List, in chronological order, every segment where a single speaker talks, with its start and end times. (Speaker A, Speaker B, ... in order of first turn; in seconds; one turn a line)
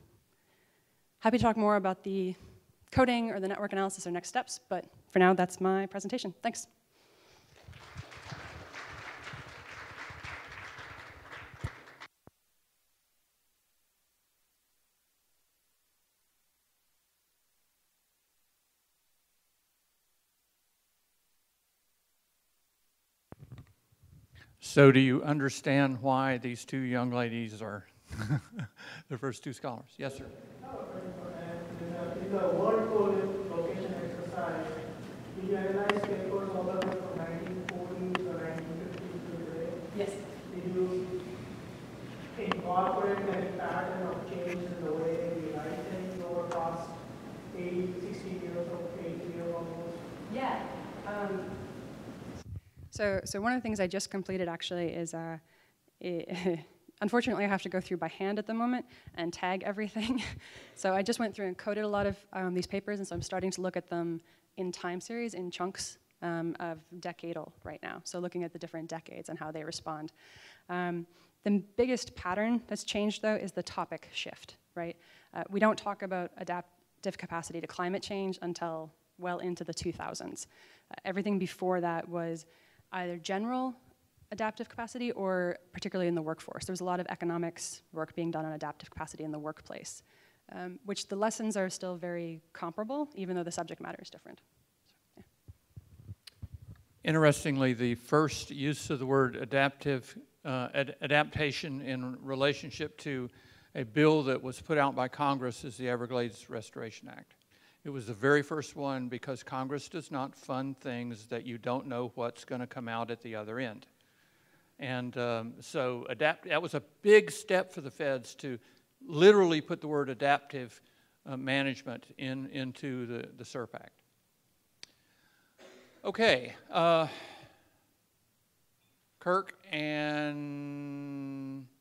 Speaker A: 1.2-6.7
Speaker B: 24.6-30.3
Speaker C: 30.6-39.9
Speaker A: 39.9-40.3
Speaker C: 40.5-41.1
Speaker C: 42.3-47.0
Speaker C: 47.5-50.0
Speaker A: 50.3-51.6
Speaker A: 52.9-55.4
Speaker A: 56.0-70.1
Speaker A: 70.7-80.5
Speaker A: 81.0-83.8
Speaker A: 84.3-94.4
Speaker B: 97.0-113.9
Speaker B: 114.8-124.0
Speaker B: 126.0-127.4
Speaker B: 129.2-131.6